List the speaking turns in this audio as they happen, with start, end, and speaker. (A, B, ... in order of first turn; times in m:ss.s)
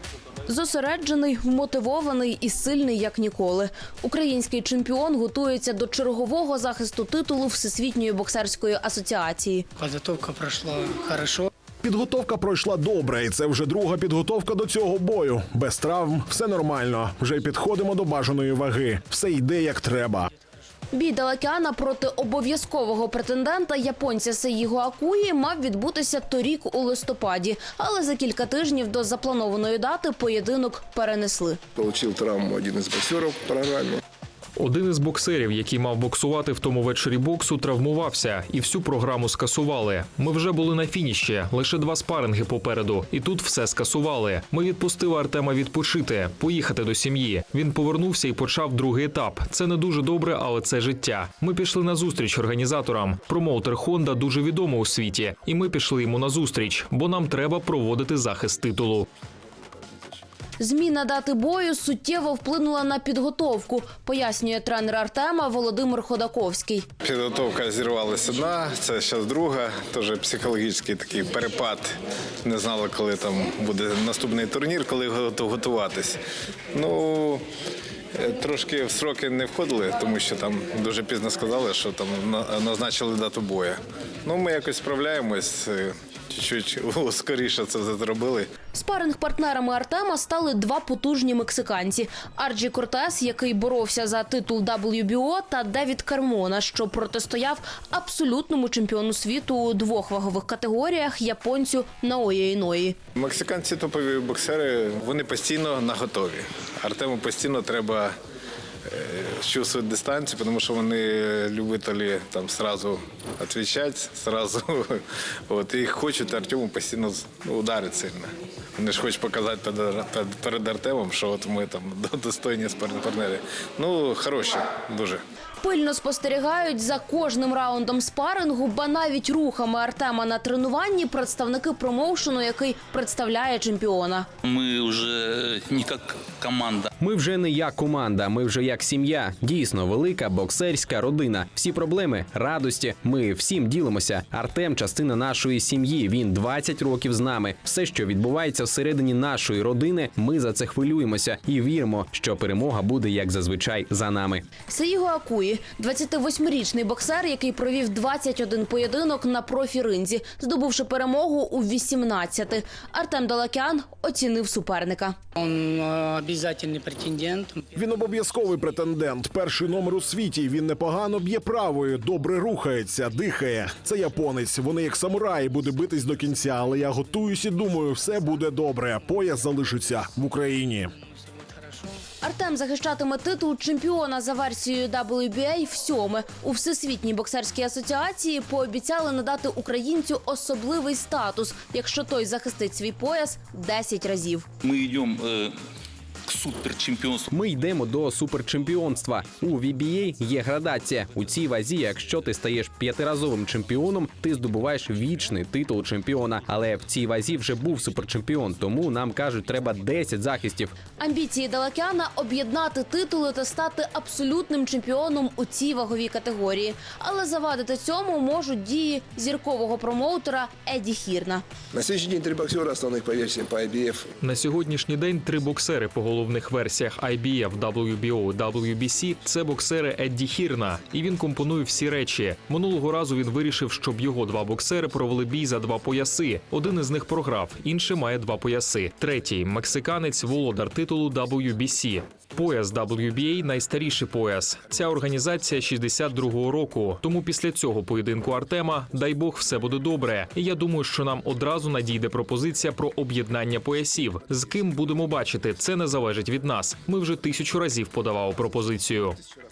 0:00.5-0:09.6 A
0:09.8-0:11.5 B
0:11.8-0:20.3 C
0:20.9-0:31.6 A
0:31.7-0:34.0 D
0:34.6-0:59.1 E
1:00.6-1:06.9 A
1:07.0-1:11.9 F
1:12.4-1:16.2 F
1:16.7-1:17.4 F
1:18.2-1:28.5 F
1:28.7-1:43.0 A
1:43.2-1:48.1 F
1:48.9-2:05.2 F
2:05.6-2:14.3 A
2:14.4-2:16.9 G
2:17.0-2:34.5 H
2:34.7-2:45.1 A
2:45.4-2:47.7 B
2:47.7-3:00.9 C
3:01.3-3:02.0 B
3:02.2-3:14.4 A
3:14.6-3:15.6 G
3:16.3-3:17.3 G
3:17.3-3:30.8 H
3:31.0-3:41.4 A
3:41.7-3:44.1 D
3:44.2-4:19.2 E